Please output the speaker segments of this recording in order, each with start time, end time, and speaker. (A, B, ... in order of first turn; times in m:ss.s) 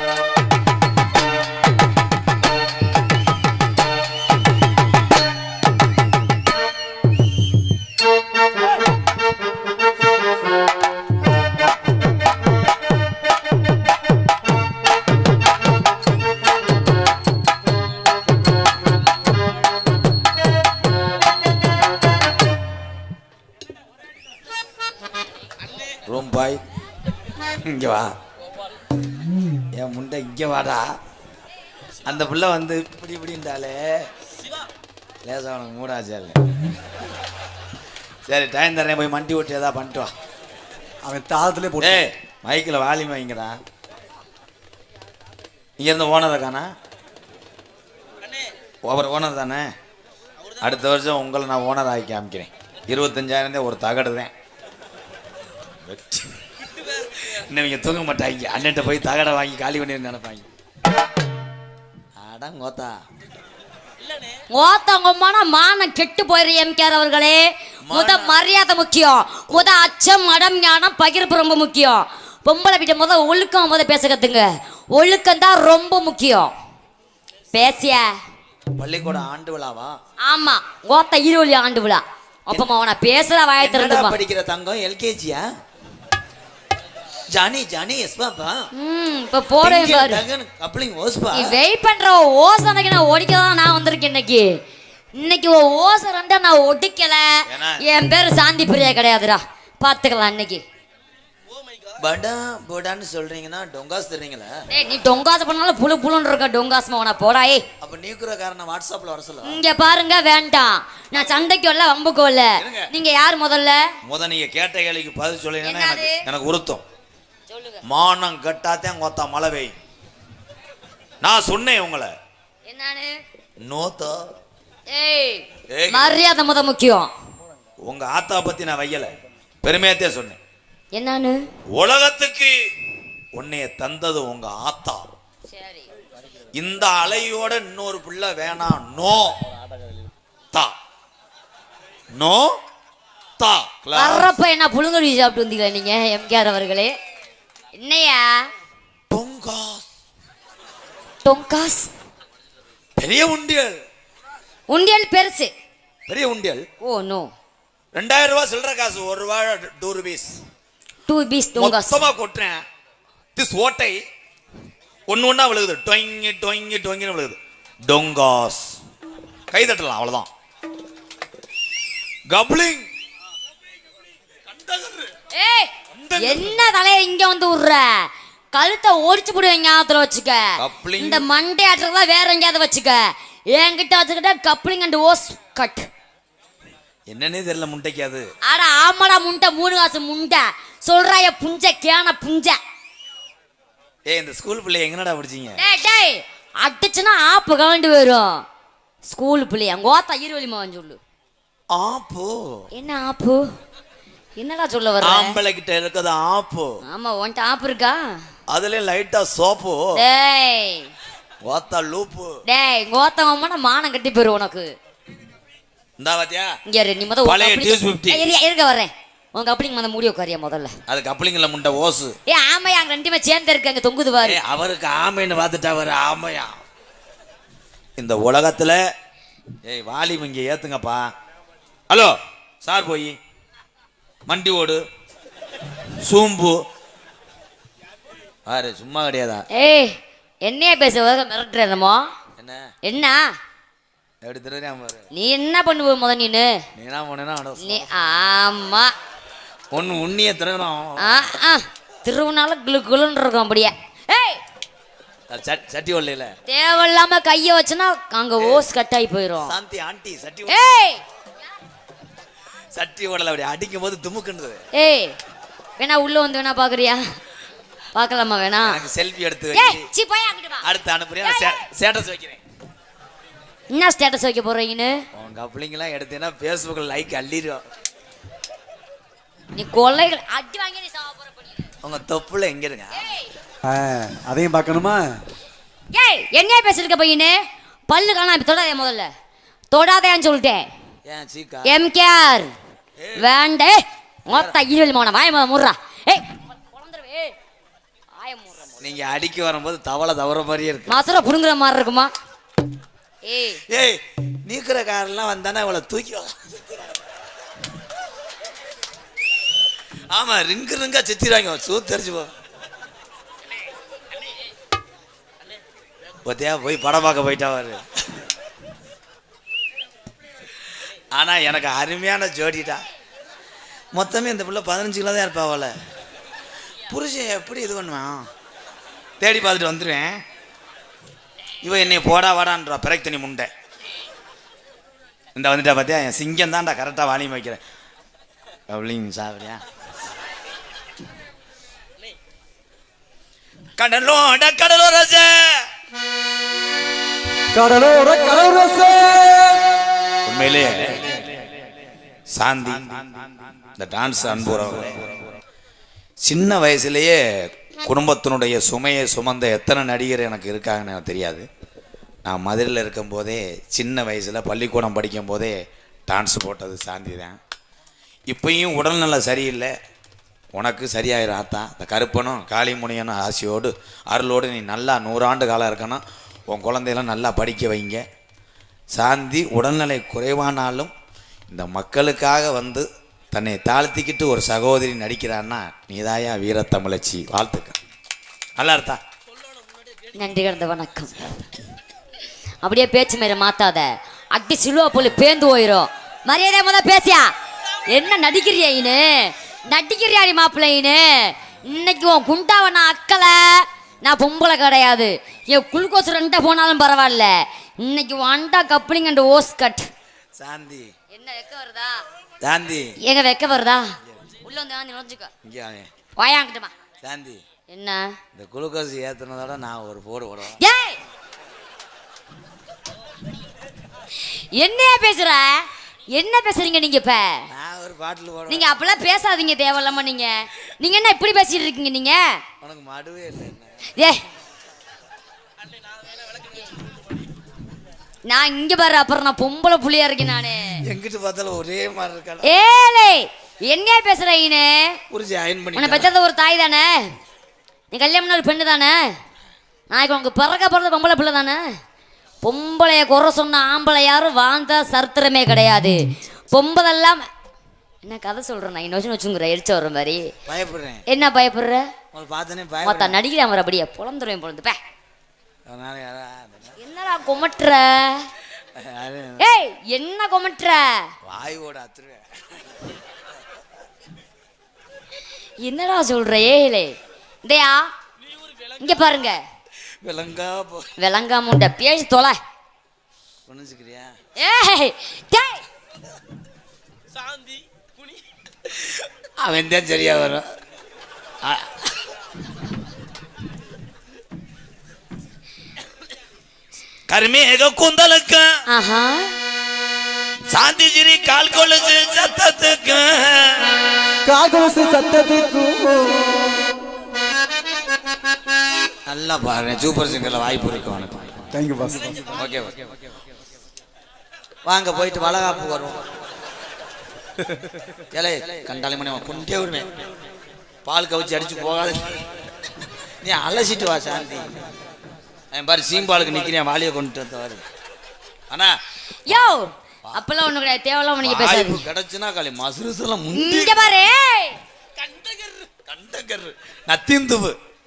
0:26.0-0:26.6 A
0:27.4-0:28.1 A
0:29.7-0:31.0 A
0:32.0-0:34.1 A
0:35.2-0:36.4 A
0:38.3-0:40.1 A
0:41.0-0:42.1 B
0:41.8-0:43.6 A
0:45.8-0:46.7 A
0:48.8-0:49.7 A
0:50.6-0:54.3 A
0:55.8-1:00.4 A
1:02.2-1:03.0 A
1:04.5-1:16.5 C
1:07.8-1:08.4 A
1:09.5-1:09.9 A
1:17.5-1:18.2 C
1:18.8-1:20.0 A
1:20.2-1:24.2 C
1:23.6-1:25.4 A
1:27.3-1:28.6 A
1:28.8-1:30.2 C
1:29.6-1:31.6 A
1:31.3-1:34.6 C
1:35.2-1:40.6 C
1:37.5-1:37.8 A
1:42.0-1:44.6 A
1:44.7-1:47.6 C
1:47.8-1:49.6 A
1:49.4-1:53.9 C
1:52.6-1:52.9 A
1:54.0-1:56.8 A
1:55.6-1:56.2 C
1:57.5-1:57.8 C
1:57.8-1:59.7 A
2:01.2-2:02.1 A
2:02.7-2:03.2 C
2:03.6-2:04.3 A
2:04.9-2:07.1 C
2:05.7-2:06.2 A
2:07.8-2:10.4 A
2:10.9-2:11.4 C
2:11.7-2:12.5 A
2:13.3-2:15.0 A
2:15.5-2:15.9 C
2:16.5-2:19.4 A
2:22.1-2:22.6 A
2:23.4-2:24.3 A
2:23.9-2:26.9 C
2:27.7-2:28.5 C
2:29.1-2:29.8 A
2:31.2-2:31.9 C
2:33.0-2:33.8 A
2:34.7-2:35.5 C
2:36.1-2:36.6 A
2:36.8-2:37.3 C
2:37.9-2:40.4 A
2:41.1-2:42.0 C
2:41.6-2:42.6 A
2:43.4-2:44.0 A
2:45.1-2:48.8 A
2:49.5-2:50.3 A
2:52.3-2:52.9 A
2:54.5-2:55.1 A
2:55.3-3:05.9 C
2:55.9-2:56.6 A
3:00.6-3:01.3 A
3:07.1-3:08.3 A
3:08.4-3:12.6 C
3:14.1-3:15.6 A
3:15.6-3:18.4 C
3:19.0-3:21.0 C
3:21.7-3:22.6 A
3:22.8-3:23.4 C
3:24.4-3:25.4 C
3:25.0-3:26.7 A
3:26.9-3:28.2 C
3:28.5-3:29.9 A
3:29.9-3:30.9 C
3:31.4-3:32.4 A
3:32.5-3:34.7 C
3:36.0-3:36.5 A
3:36.7-3:40.8 C
3:37.2-3:38.3 A
3:40.9-3:42.2 A
3:42.3-3:44.4 C
3:44.2-3:46.6 A
3:48.0-3:48.8 A
3:49.6-3:51.0 A
3:51.9-3:53.2 A
3:54.3-3:54.8 A
3:56.0-3:56.6 A
3:58.5-3:59.5 A
3:59.5-4:02.1 C
4:02.4-4:02.7 A
4:02.8-4:03.3 C
4:04.2-4:05.0 A
4:05.1-4:06.6 C
4:06.8-4:07.9 A
4:07.6-4:08.9 C
4:09.7-4:11.3 A
4:11.0-4:14.4 C
4:15.3-4:16.3 A
4:16.5-4:19.5 C
4:18.4-4:18.6 A
4:19.4-4:20.7 A
4:20.5-4:21.0 C
4:22.8-4:24.6 A
4:24.7-4:25.1 C
4:25.8-4:27.0 C
4:28.0-4:28.8 C
4:28.6-4:29.9 A
4:29.5-4:30.7 C
4:30.6-4:32.4 A
4:31.2-4:31.6 C
4:33.7-4:35.0 C
4:35.1-4:37.6 A
4:39.5-4:41.7 C
4:41.8-4:43.0 A
4:42.9-4:43.3 C
4:43.6-4:45.2 B
4:45.9-4:49.1 C
4:49.7-4:50.7 C
4:51.0-4:51.7 A
4:51.6-4:52.5 C
4:53.0-4:53.3 A
4:53.2-4:57.4 C
4:54.3-4:54.6 A
4:58.2-4:58.9 C
4:58.8-5:01.0 A
5:00.9-5:02.1 C
5:03.2-5:03.6 C
5:03.7-5:07.0 A
5:10.1-5:12.3 A
5:16.2-5:18.1 A
5:21.1-5:22.8 A
5:23.9-5:25.8 A
5:26.9-5:28.3 A
5:29.2-5:30.2 A
5:31.6-5:33.5 A
5:35.4-5:37.6 A
5:38.7-5:39.6 A
5:43.8-5:45.7 A
5:47.5-5:49.8 B
5:50.2-5:51.2 A
5:52.3-5:55.3 A
5:56.2-5:57.2 A
5:57.8-6:01.5 A
6:02.2-6:07.4 A
6:08.3-6:09.8 A
6:10.5-6:18.0 A
6:18.9-6:20.9 A
6:21.5-6:27.8 A
6:28.6-6:29.0 A
6:30.1-6:31.5 C
6:32.6-6:37.4 C
6:37.9-6:49.9 C
6:50.4-6:50.9 A
6:51.1-6:52.0 C
6:52.4-6:53.0 A
6:53.0-6:55.3 C
6:55.4-6:55.9 A
6:56.2-6:56.7 C
6:57.0-6:57.4 A
6:57.7-6:58.2 C
6:58.3-7:00.6 A
7:00.6-7:01.0 C
7:04.2-7:07.5 C
7:07.5-7:08.8 A
7:08.5-7:12.4 C
7:12.6-7:13.9 A
7:14.0-7:14.2 C
7:18.2-7:20.8 C
7:20.9-7:22.5 A
7:22.4-7:25.0 C
7:25.1-7:26.1 A
7:25.8-7:27.1 C
7:27.9-7:29.2 C
7:29.9-7:31.7 C
7:32.4-7:36.0 C
7:36.5-7:37.3 C
7:38.0-7:40.3 C
7:40.5-7:41.0 A
7:41.1-7:41.9 C
7:42.1-7:43.2 A
7:42.8-7:44.8 C
7:45.7-7:46.8 A
7:46.8-7:48.3 C
7:48.8-7:49.6 A
7:49.4-7:51.1 C
7:51.2-7:52.4 A
7:55.6-7:57.9 C
7:58.8-7:59.4 C
8:00.0-8:00.9 A
8:01.0-8:02.4 C
8:03.5-8:04.1 A
8:04.4-8:05.6 C
8:08.6-8:10.5 A
8:11.4-8:12.1 A
8:17.1-8:18.5 A
8:18.7-8:19.3 C
8:20.5-8:23.8 A
8:24.2-8:26.7 B
8:29.1-8:31.4 A
8:31.5-8:32.3 B
8:32.3-8:33.0 A
8:34.6-8:36.0 A
8:37.4-8:37.7 B
8:38.1-8:39.9 A
8:40.8-8:42.2 A
8:43.2-8:44.7 A
8:45.5-8:47.6 A
8:48.5-8:48.8 A
8:49.3-8:51.9 C
8:51.2-8:53.9 A
8:53.3-8:54.6 C
8:55.2-8:57.6 A